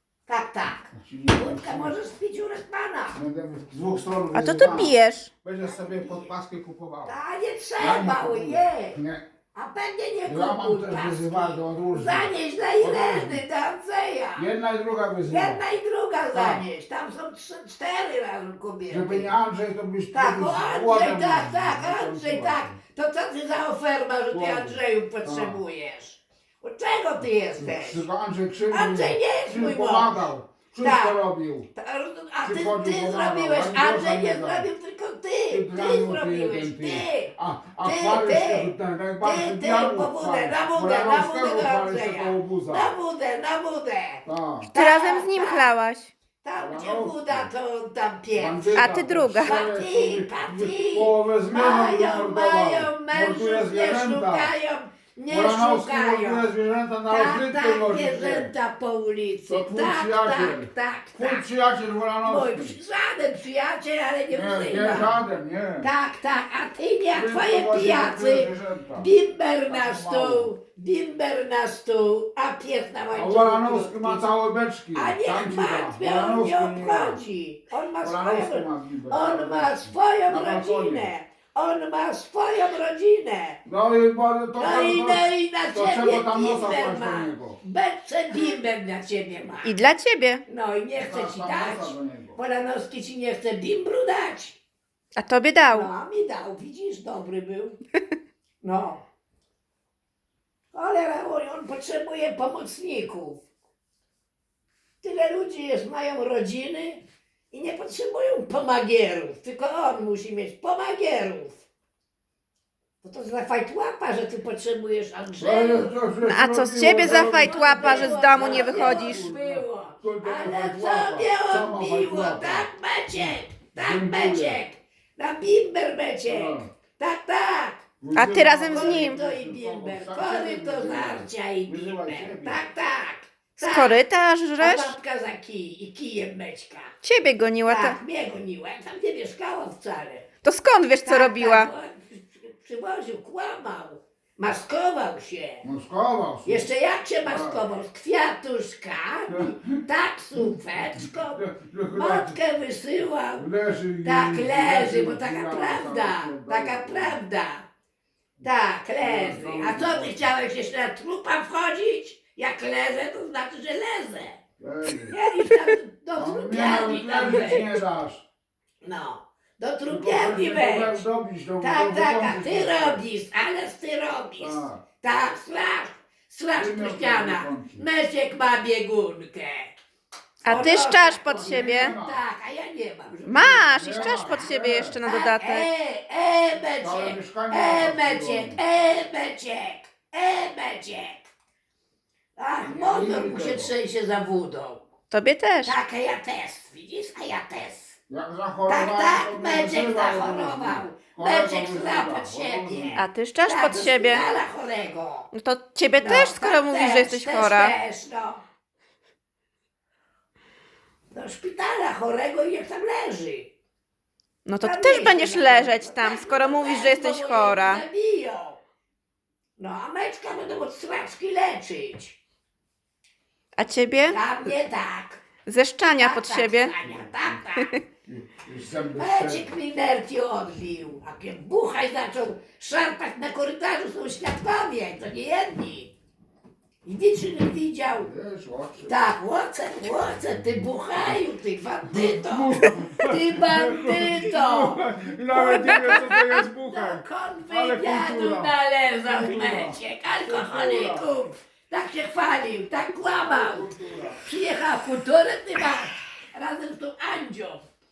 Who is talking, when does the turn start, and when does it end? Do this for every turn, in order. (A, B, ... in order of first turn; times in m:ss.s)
0:00.3-0:03.2 A
0:00.9-0:02.0 B
0:03.1-0:07.2 B
0:04.3-0:05.3 C
0:05.6-0:06.3 A
0:07.0-0:09.0 A
0:07.8-0:09.2 B
0:09.5-0:14.5 A
0:10.2-0:13.4 B
0:14.4-0:15.6 B
0:15.3-0:19.3 A
0:16.3-0:16.6 B
0:18.9-0:22.8 B
0:20.1-0:28.0 A
0:24.3-0:25.6 B
0:27.6-0:31.7 B
0:28.7-0:30.2 A
0:30.8-0:31.2 A
0:31.7-0:45.7 A
0:32.4-0:34.7 B
0:35.5-0:42.9 B
0:44.2-0:44.7 B
0:44.7-0:46.1 C
0:46.4-0:56.5 A
0:46.6-0:47.5 B
0:48.4-0:54.5 B
0:48.7-0:49.5 C
0:55.3-0:58.5 B
0:57.1-1:01.5 A
0:59.5-1:02.8 B
1:02.2-1:05.2 A
1:04.3-1:05.9 B
1:05.8-1:14.2 A
1:07.1-1:09.1 B
1:09.7-1:10.5 B
1:13.1-1:17.2 B
1:14.9-1:23.6 A
1:18.0-1:21.1 B
1:23.6-1:27.6 B
1:24.6-1:29.8 A
1:29.6-1:30.4 C
1:30.4-1:34.6 A
1:31.0-1:32.4 B
1:35.2-1:35.9 C
1:35.7-1:37.8 A
1:38.6-1:39.0 A
1:40.7-1:43.4 A
1:45.0-1:51.6 A
1:53.0-1:56.0 A
1:55.4-2:02.7 B
1:56.2-1:59.3 C
1:57.0-2:07.8 A
2:03.2-2:04.6 B
2:06.3-2:06.7 B
2:08.0-2:12.6 B
2:08.1-2:09.2 C
2:08.7-2:14.0 A
2:13.6-2:14.9 C
2:14.6-2:16.9 A
2:17.0-2:18.0 C
2:17.6-2:20.3 A
2:20.4-2:21.7 C
2:21.0-2:25.6 A
2:25.6-2:26.7 B
2:26.4-2:33.4 A
2:27.2-2:27.6 B
2:29.3-2:29.6 B
2:31.0-2:32.4 B
2:33.4-2:37.2 B
2:34.0-2:37.6 A
2:38.4-2:44.4 A
2:39.0-2:40.3 B
2:44.6-2:45.2 B
2:45.1-2:47.7 A
2:46.2-2:48.2 B
2:48.8-2:51.0 A
2:49.9-2:53.0 B
2:51.6-2:59.8 A
2:54.4-2:54.8 B
2:56.6-2:57.8 B
3:00.4-3:01.9 C
3:00.4-3:03.9 A
3:00.5-3:02.2 B
3:03.2-3:05.7 C
3:03.8-3:05.0 B
3:05.0-3:11.3 A
3:06.8-3:08.6 B
3:12.4-3:14.8 A
3:12.6-3:13.7 B
3:15.1-3:15.8 C
3:15.6-3:18.0 A
3:18.1-3:23.0 B
3:18.7-3:25.3 A
3:22.9-3:24.3 C
3:25.3-3:27.7 C
3:26.0-3:28.4 A
3:31.1-3:33.5 A
3:34.4-3:37.8 C
3:34.6-3:38.6 A
3:39.6-3:42.2 A
3:43.6-3:44.4 C
3:44.1-3:45.2 A
3:45.4-3:46.7 C
3:45.9-3:47.7 A
3:46.8-3:47.3 B
3:48.0-3:49.5 B
3:49.0-3:55.9 A
3:56.8-3:58.1 A
3:58.0-3:59.0 B
3:58.8-4:17.6 A
4:01.8-4:11.1 B
4:05.6-4:06.4 C
4:13.2-4:14.2 B